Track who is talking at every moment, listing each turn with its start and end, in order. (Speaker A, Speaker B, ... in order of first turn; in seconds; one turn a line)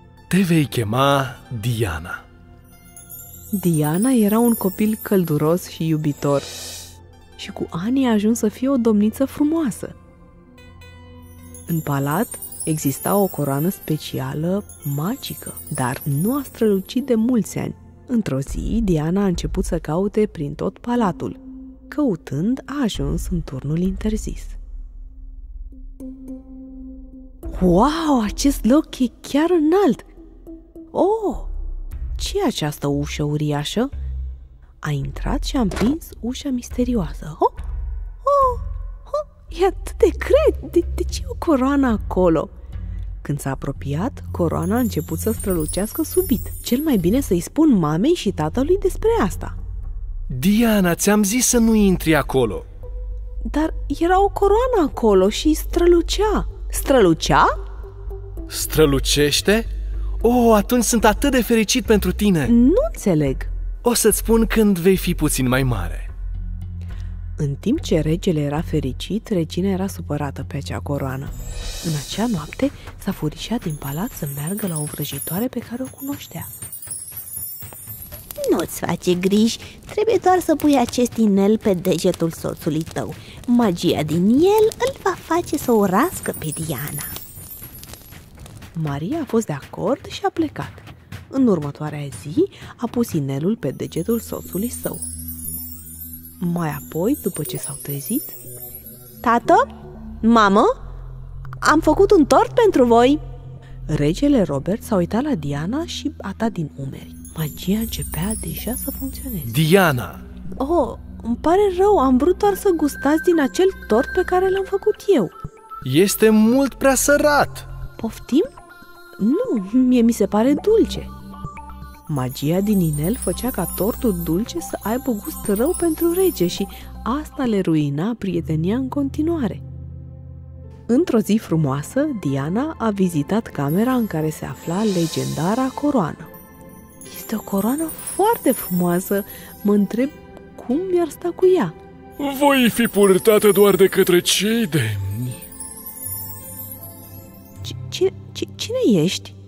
Speaker A: 0.3-2.2
Speaker B: 3.5-6.5
Speaker B: 7.4-9.9
Speaker B: 11.7-21.4
Speaker B: 21.9-24.6
Speaker B: 27.5-30.1
Speaker B: 30.9-31.5
Speaker B: 32.2-33.9
Speaker B: 34.8-37.5
Speaker B: 38.2-38.6
Speaker B: 39.5-42.5
Speaker B: 43.2-49.5
Speaker A: 50.3-52.7
Speaker B: 53.4-57.5
Speaker A: 58.5-59.7
Speaker A: 60.2-62.5
Speaker B: 62.5-63.5
Speaker A: 63.8-66.1
Speaker B: 67.4-71.3
Speaker B: 71.8-76.5
Speaker C: 78.4-87.1
Speaker B: 88.7-95.0
Speaker B: 96.4-98.3
Speaker C: 99.2-99.7
Speaker C: 100.2-100.7
Speaker C: 101.6-103.2
Speaker B: 103.9-109.5
Speaker A: 109.4-110.2
Speaker B: 110.6-115.3
Speaker A: 115.8-117.7
Speaker B: 118.0-118.5
Speaker B: 119.2-121.1
Speaker B: 122.1-129.6
Speaker B: 130.9-136.3
Speaker B: 137.1-141.7
Speaker D: 142.2-145.4
Speaker B: 147.6-149.3